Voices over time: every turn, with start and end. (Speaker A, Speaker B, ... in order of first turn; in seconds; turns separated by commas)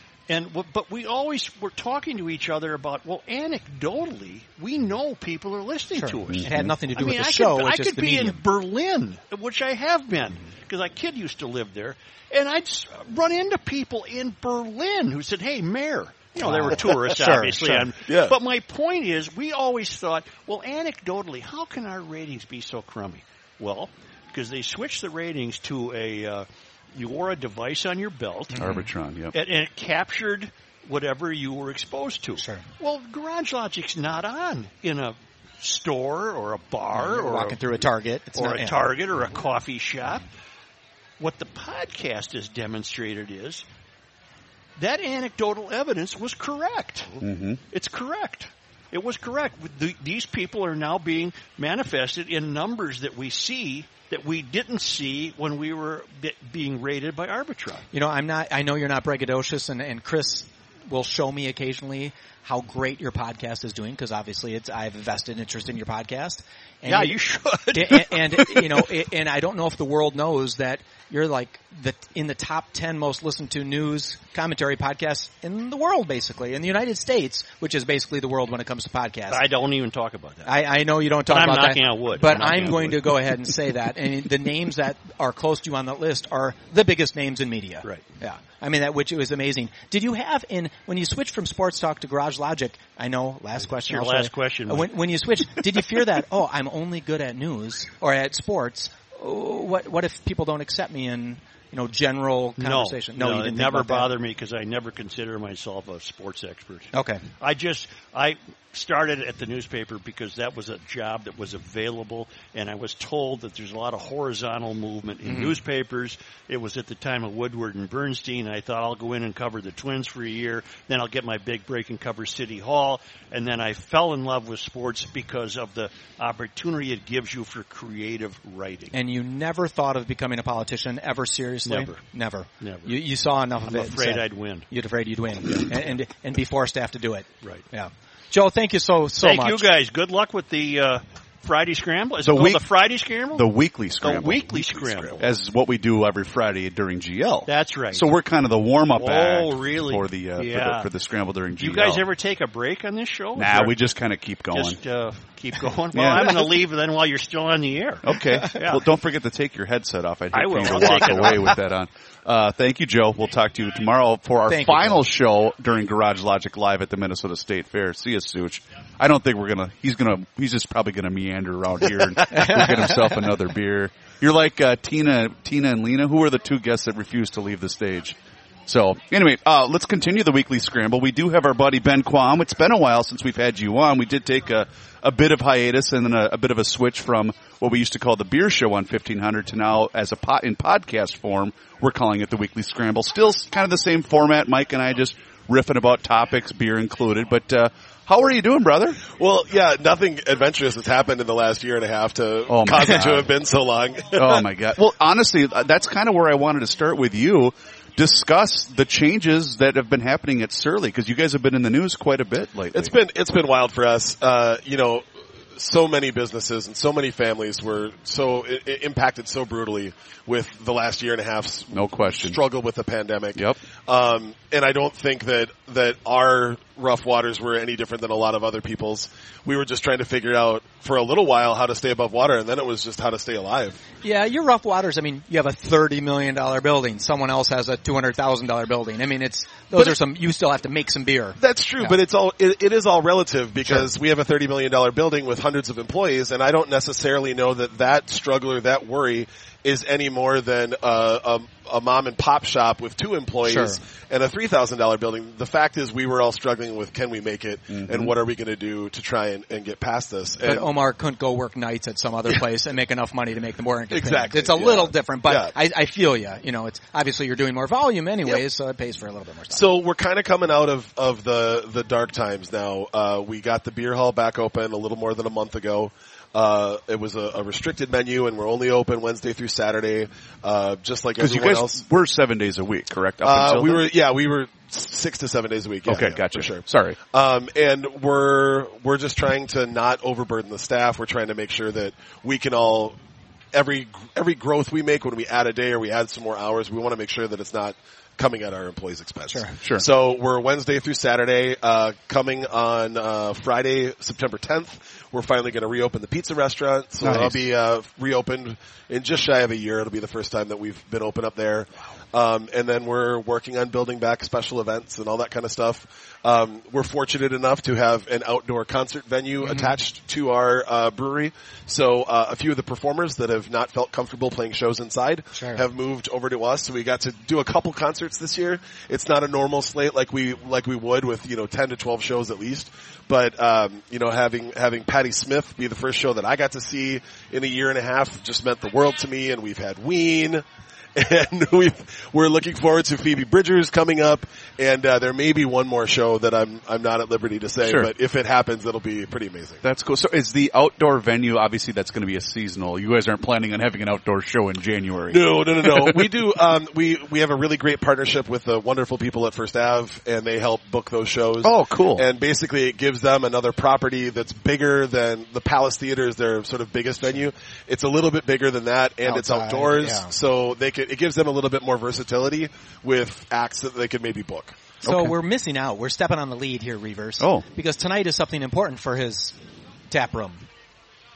Speaker A: 0.3-28.7, Speaker B: 6.0-8.4, Speaker C: 6.3-6.7, Speaker B: 16.4-17.9, Speaker D: 18.1-18.3, Speaker C: 28.6-29.3, Speaker A: 29.3-37.6, Speaker B: 36.9-38.8, Speaker A: 38.4-40.3, Speaker A: 41.2-43.6, Speaker A: 44.8-47.1, Speaker C: 47.2-47.6, Speaker A: 47.7-57.9, Speaker B: 57.9-67.2, Speaker A: 66.8-68.6, Speaker B: 67.7-79.4, Speaker A: 79.3-80.6, Speaker B: 80.4-104.1, Speaker A: 81.3-83.3, Speaker A: 93.8-94.9, Speaker A: 102.6-128.9, Speaker B: 106.9-107.2, Speaker B: 115.2-115.5, Speaker B: 128.9-139.7, Speaker A: 131.7-132.0, Speaker A: 132.6-133.0, Speaker A: 133.7-134.7, Speaker A: 139.2-143.5, Speaker C: 142.3-142.6, Speaker C: 143.3-152.1, Speaker A: 144.0-145.3, Speaker A: 147.5-148.1, Speaker A: 148.9-150.9, Speaker A: 151.5-153.8, Speaker C: 153.3-154.8, Speaker A: 154.5-158.8, Speaker C: 155.9-156.3, Speaker C: 158.0-199.0, Speaker A: 160.3-161.6, Speaker B: 164.5-165.0, Speaker B: 172.3-172.8, Speaker D: 199.1-204.4, Speaker C: 202.5-203.3, Speaker C: 204.1-212.9, Speaker D: 212.7-233.8, Speaker C: 221.7-222.4, Speaker B: 234.0-242.0, Speaker D: 241.4-260.6, Speaker B: 253.4-253.8, Speaker C: 257.7-258.1, Speaker B: 260.4-269.6, Speaker D: 263.9-265.5, Speaker D: 269.5-281.8, Speaker C: 281.2-283.8, Speaker D: 283.2-292.9, Speaker C: 285.9-287.0, Speaker D: 293.5-340.4, Speaker C: 307.0-307.4, Speaker B: 325.3-325.6, Speaker D: 340.9-349.6, Speaker C: 347.6-347.9, Speaker C: 349.6-356.0, Speaker D: 355.1-374.6, Speaker C: 361.4-362.1, Speaker B: 369.1-370.1, Speaker B: 374.8-379.3, Speaker C: 374.8-375.1, Speaker C: 377.2-377.4, Speaker B: 379.9-380.5